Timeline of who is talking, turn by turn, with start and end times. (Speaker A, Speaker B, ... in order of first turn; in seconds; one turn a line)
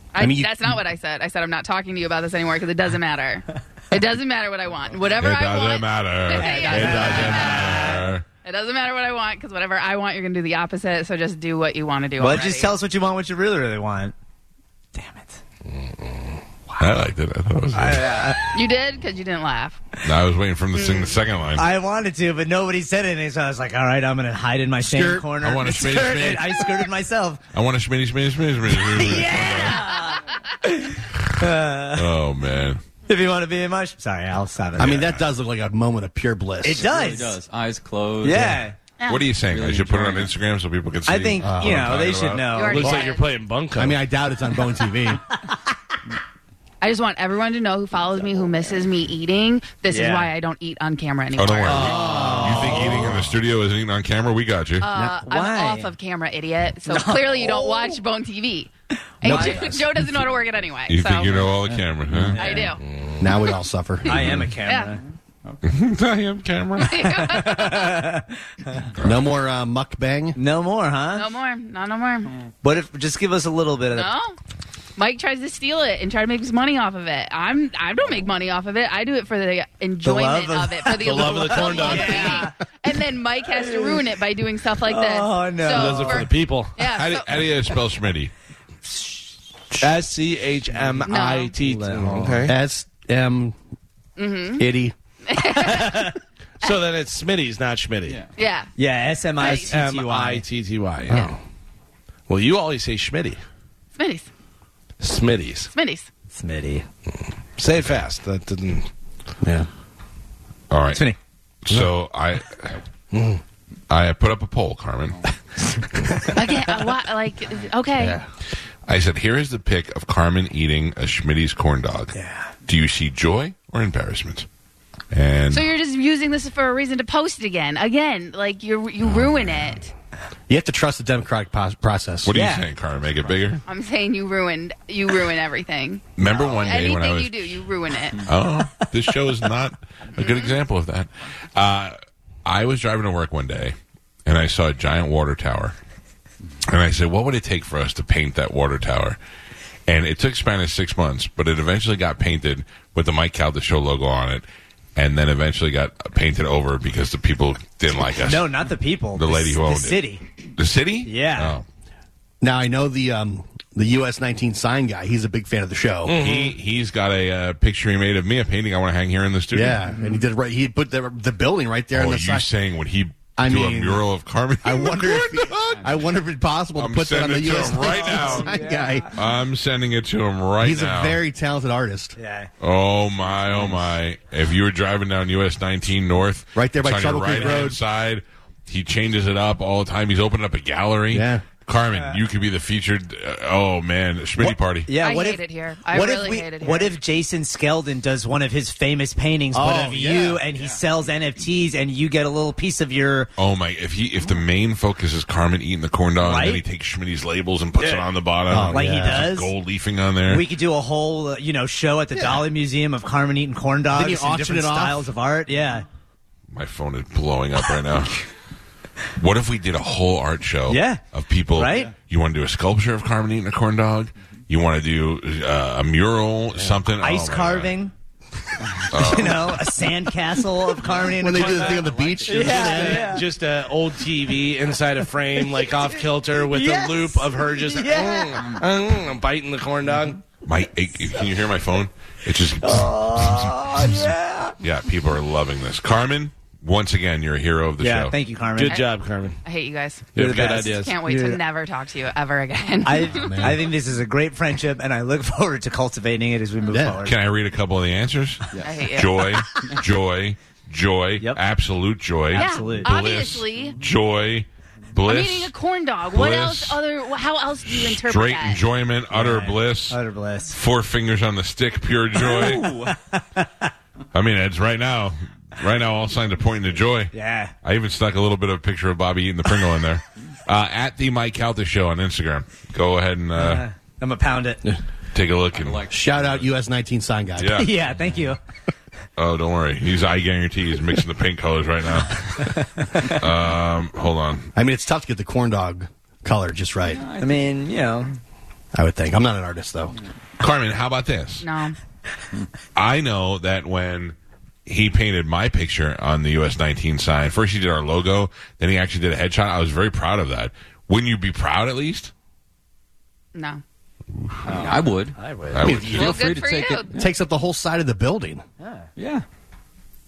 Speaker A: 0.1-12.7
Speaker B: 0.2-0.8
Speaker C: 5.2-8.2
Speaker D: 6.3-8.1
Speaker D: 12.2-14.1
Speaker D: 14.9-15.4
Speaker E: 15.8-16.4
Speaker C: 16.8-18.4
Speaker D: 17.7-18.6
Speaker A: 18.5-19.8
Speaker C: 20.0-21.7
Speaker A: 20.7-21.2
Speaker D: 21.6-27.4
Speaker B: 24.8-25.3
Speaker C: 25.4-26.9
Speaker C: 27.5-30.0
Speaker D: 28.7-32.1
Speaker C: 31.9-32.8
Speaker D: 33.1-35.1
Speaker B: 34.8-37.2
Speaker C: 34.8-35.1
Speaker D: 36.6-37.4
Speaker F: 36.7-38.6
Speaker D: 38.2-38.7
Speaker A: 39.0-39.3
Speaker C: 39.0-42.7
Speaker F: 39.5-40.3
Speaker D: 41.0-43.1
Speaker B: 41.4-42.0
Speaker A: 42.5-43.3
Speaker E: 42.7-44.0
Speaker B: 43.8-45.2
Speaker A: 46.8-52.0
Speaker D: 49.9-50.3
Speaker C: 51.4-54.9
Speaker E: 51.7-52.9
Speaker D: 51.7-53.2
Speaker B: 52.2-52.9
Speaker A: 54.8-61.3
Speaker D: 54.9-55.9
Speaker D: 56.9-58.0
Speaker D: 59.2-59.8
Speaker B: 59.2-60.1
Speaker C: 60.9-62.4
Speaker D: 62.3-62.8
Speaker A: 62.4-63.6
Speaker E: 62.9-63.2
Speaker B: 63.2-64.4
Speaker D: 64.0-65.0
Speaker C: 64.1-64.5
Speaker A: 64.2-65.0
Speaker C: 65.6-67.4
Speaker A: 66.8-67.9
Speaker D: 67.3-68.9
Speaker C: 69.0-69.2
Speaker B: 69.0-70.4
Speaker D: 70.3-71.3
Speaker A: 71.1-72.3
Speaker D: 72.6-74.1
Speaker A: 73.9-74.3
Speaker A: 75.0-87.5
Speaker D: 80.0-82.5
Speaker E: 81.0-82.4
Speaker D: 83.5-84.1
Speaker D: 84.8-86.3
Speaker E: 85.7-86.7
Speaker C: 87.0-88.3
Speaker E: 89.8-92.5
Speaker A: 91.0-91.5
Speaker D: 91.6-92.3
Speaker B: 92.2-93.5
Speaker A: 94.2-94.7
Speaker B: 94.6-94.9
Speaker A: 95.2-96.7
Speaker D: 95.5-96.1
Speaker E: 96.6-98.2
Speaker A: 98.3-98.7
Speaker D: 98.8-100.4
Speaker A: 99.4-99.7
Speaker E: 99.4-101.3
Speaker E: 102.3-103.4
Speaker A: 104.0-104.3
Speaker E: 105.0-105.7
Speaker A: 105.7-106.1
Speaker D: 106.3-106.8
Speaker E: 107.6-108.9
Speaker B: 109.4-109.7
Speaker C: 110.7-111.1
Speaker C: 111.6-112.8
Speaker E: 113.1-113.4
Speaker C: 113.9-115.2
Speaker D: 116.1-116.7
Speaker A: 116.3-118.2
Speaker B: 118.0-118.2
Speaker C: 118.9-124.5
Speaker D: 122.1-122.5
Speaker C: 125.1-125.7
Speaker A: 125.5-129.9
Speaker B: 130.5-132.3
Speaker C: 132.2-133.6
Speaker D: 132.3-132.7
Speaker A: 133.7-138.3
Speaker C: 136.2-137.6
Speaker C: 138.2-143.7
Speaker A: 140.1-140.5
Speaker C: 144.2-145.7
Speaker C: 146.6-149.2
Speaker C: 149.9-154.4
Speaker C: 154.9-158.5
Speaker D: 158.2-160.2
Speaker C: 159.1-160.0
Speaker C: 160.6-161.6
Speaker D: 161.1-161.6
Speaker B: 162.4-166.2
Speaker E: 166.0-166.6
Speaker C: 166.2-169.8
Speaker B: 169.5-172.5
Speaker D: 169.9-170.2
Speaker C: 171.9-175.8
Speaker B: 173.4-174.1
Speaker B: 174.6-179.2
Speaker C: 176.8-178.5
Speaker D: 177.8-179.1
Speaker C: 179.1-181.2
Speaker B: 180.6-182.2
Speaker D: 182.2-182.5
Speaker C: 182.6-194.9
Speaker B: 186.5-187.8
Speaker B: 191.1-191.4
Speaker D: 194.4-203.3
Speaker A: 195.0-196.9
Speaker B: 199.5-200.4
Speaker C: 203.4-210.4
Speaker D: 206.2-206.6
Speaker D: 207.8-208.1
Speaker B: 208.5-209.3
Speaker D: 208.6-209.5
Speaker D: 210.3-215.8
Speaker B: 212.1-212.5
Speaker B: 213.9-215.1
Speaker C: 216.5-218.2
Speaker C: 219.2-227.8
Speaker D: 220.7-221.0
Speaker D: 221.6-221.9
Speaker D: 227.0-227.9
Speaker C: 228.9-229.8
Speaker D: 228.9-233.3
Speaker F: 230.8-232.8
Speaker B: 231.0-233.2
Speaker E: 232.5-240.2
Speaker D: 235.4-238.6
Speaker C: 240.4-243.6
Speaker D: 242.6-244.5
Speaker C: 244.6-248.1
Speaker D: 247.8-248.8
Speaker E: 248.6-249.4
Speaker A: 248.6-248.8
Speaker A: 249.4-253.5
Speaker E: 250.2-250.9
Speaker D: 250.2-251.4
Speaker D: 252.8-257.1
Speaker B: 253.1-253.7
Speaker B: 256.7-257.0
Speaker C: 257.0-265.5
Speaker A: 258.6-259.3
Speaker D: 262.3-263.0
Speaker A: 262.3-263.8
Speaker A: 265.0-268.6
Speaker C: 266.1-266.8
Speaker C: 267.6-272.7
Speaker D: 269.1-270.6
Speaker D: 272.2-273.7
Speaker F: 272.4-272.9
Speaker C: 274.1-283.6
Speaker D: 277.1-277.5
Speaker D: 283.4-284.6
Speaker C: 285.1-285.9
Speaker F: 285.6-286.4
Speaker B: 285.9-287.6
Speaker C: 287.4-287.7
Speaker D: 287.6-288.4
Speaker C: 289.2-294.5
Speaker D: 292.4-293.2
Speaker B: 294.5-297.0
Speaker F: 296.9-297.3
Speaker D: 297.1-298.2
Speaker B: 298.7-299.9
Speaker C: 300.4-301.4
Speaker A: 301.4-301.8
Speaker C: 302.8-304.1
Speaker C: 304.6-312.1
Speaker A: 313.3-313.6
Speaker C: 314.1-314.7
Speaker F: 314.4-317.1
Speaker D: 315.2-315.6
Speaker C: 315.5-316.2
Speaker B: 315.6-316.0
Speaker A: 315.7-316.9
Speaker B: 316.9-318.4
Speaker D: 318.6-318.9
Speaker F: 319.0-319.2